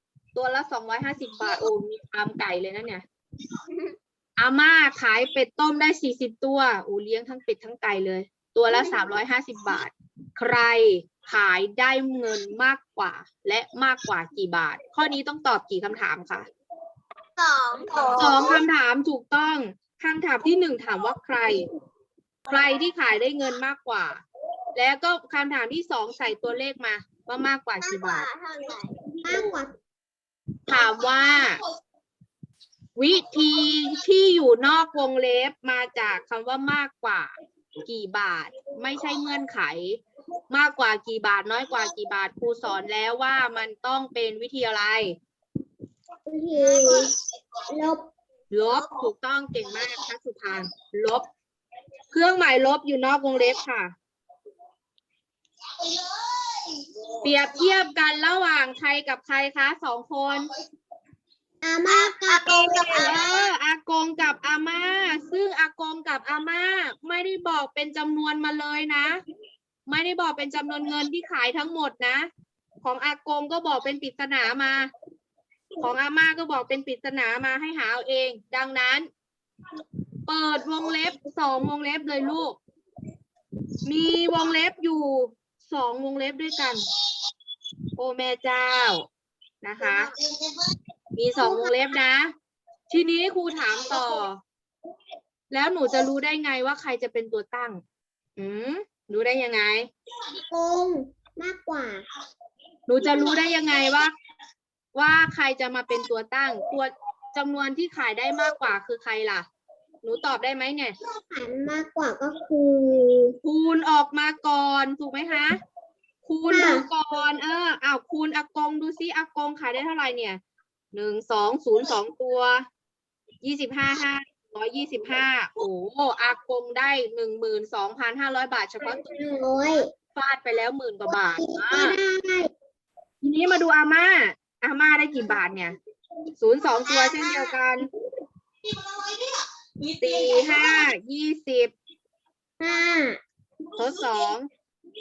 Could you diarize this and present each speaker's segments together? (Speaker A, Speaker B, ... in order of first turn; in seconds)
Speaker A: 0.3-3.0, 4.4-16.5, 18.2-21.6, 22.5-24.2, 24.8-28.3, 30.7-31.6, 33.0-45.2, 48.5-51.3, 52.1-53.9, 57.2-60.5, 62.9-69.2, 69.9-72.3, 72.8-74.9, 75.8-79.1, 80.3-82.6, 83.8-86.9, 88.0-89.1, 89.6-90.1, 91.2-92.3, 92.9-94.4, 95.5-97.8, 98.4-99.9, 102.9-104.2, 105.0-109.5, 110.0-111.0, 113.4-115.6, 116.3-120.4, 120.9-122.7, 123.4-129.0, 130.2-132.0, 133.2-135.8, 136.4-137.9, 140.0-141.7, 143.8-144.5
Speaker B: 17.4-18.6, 27.8-29.0, 46.6-47.1, 48.7-49.1, 61.9-63.4, 89.8-90.3, 136.9-137.6
Speaker C: 29.2-29.7, 46.3-47.1, 47.7-48.1, 61.6-63.2, 100.5-102.1, 111.2-113.4, 116.5-116.9, 128.8-129.9, 131.1-132.5, 142.6-143.2